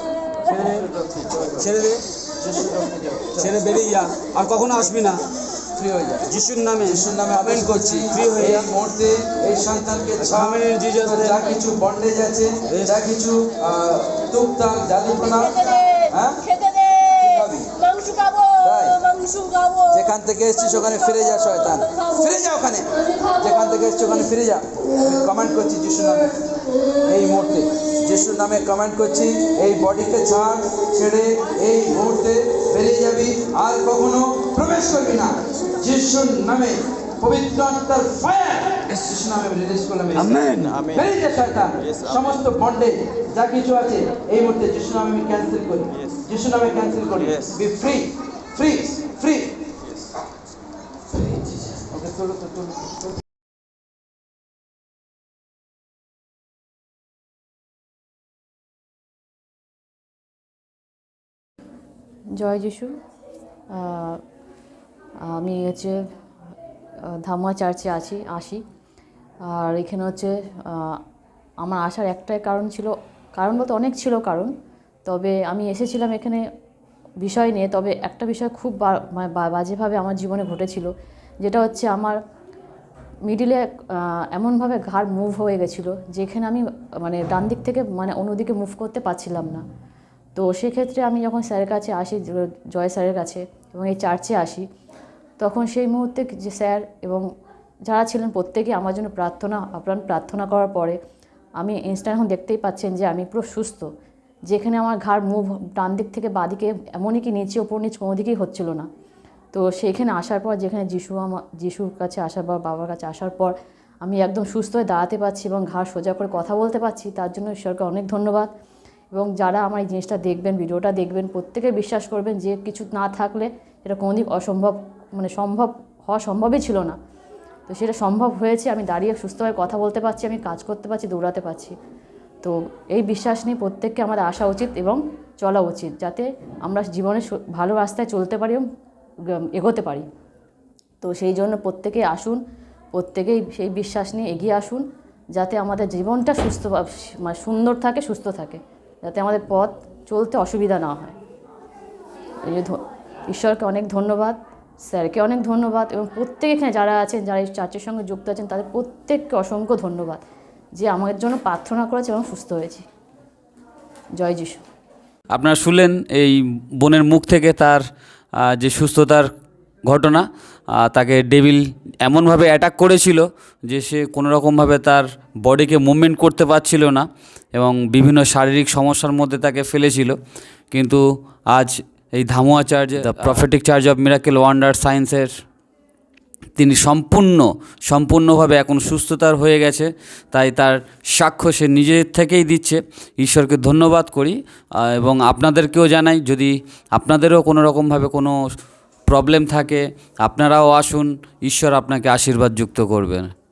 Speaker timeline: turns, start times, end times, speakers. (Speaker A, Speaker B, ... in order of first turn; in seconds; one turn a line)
Speaker A: 0.5-0.9
Speaker B: 0.5-1.7
Speaker A: 1.5-2.0
Speaker B: 2.4-3.6
Speaker A: 3.4-5.2
Speaker B: 5.7-6.3
Speaker A: 6.3-8.7
Speaker B: 6.8-17.8
Speaker A: 10.2-11.5
Speaker A: 12.7-13.0
Speaker B: 18.3-19.0
Speaker B: 19.7-26.4
Speaker B: 27.1-49.6
Speaker A: 40.1-40.9
Speaker C: 51.1-51.5
Speaker B: 51.9-53.0
Speaker D: 62.4-63.0
Speaker D: 63.7-64.2
Speaker D: 65.2-66.0
Speaker D: 67.1-68.6
Speaker D: 69.4-71.0
Speaker D: 71.6-74.5
Speaker D: 75.1-76.4
Speaker D: 77.2-82.2
Speaker D: 83.3-89.6
Speaker D: 90.4-94.6
Speaker D: 95.4-97.2
Speaker D: 97.9-101.0
Speaker D: 101.6-103.9
Speaker D: 104.5-108.9
Speaker D: 109.5-118.5
Speaker D: 119.1-127.0
Speaker D: 127.7-131.8
Speaker D: 132.4-138.6
Speaker D: 139.4-140.1
Speaker D: 141.0-142.4
Speaker D: 142.9-151.2
Speaker D: 152.4-160.2
Speaker D: 160.8-162.9
Speaker D: 164.2-164.6
Speaker C: 165.3-167.8
Speaker C: 168.4-169.3
Speaker C: 169.9-180.2
Speaker C: 180.7-185.3
Speaker C: 186.6-198.4
Speaker C: 199.1-203.3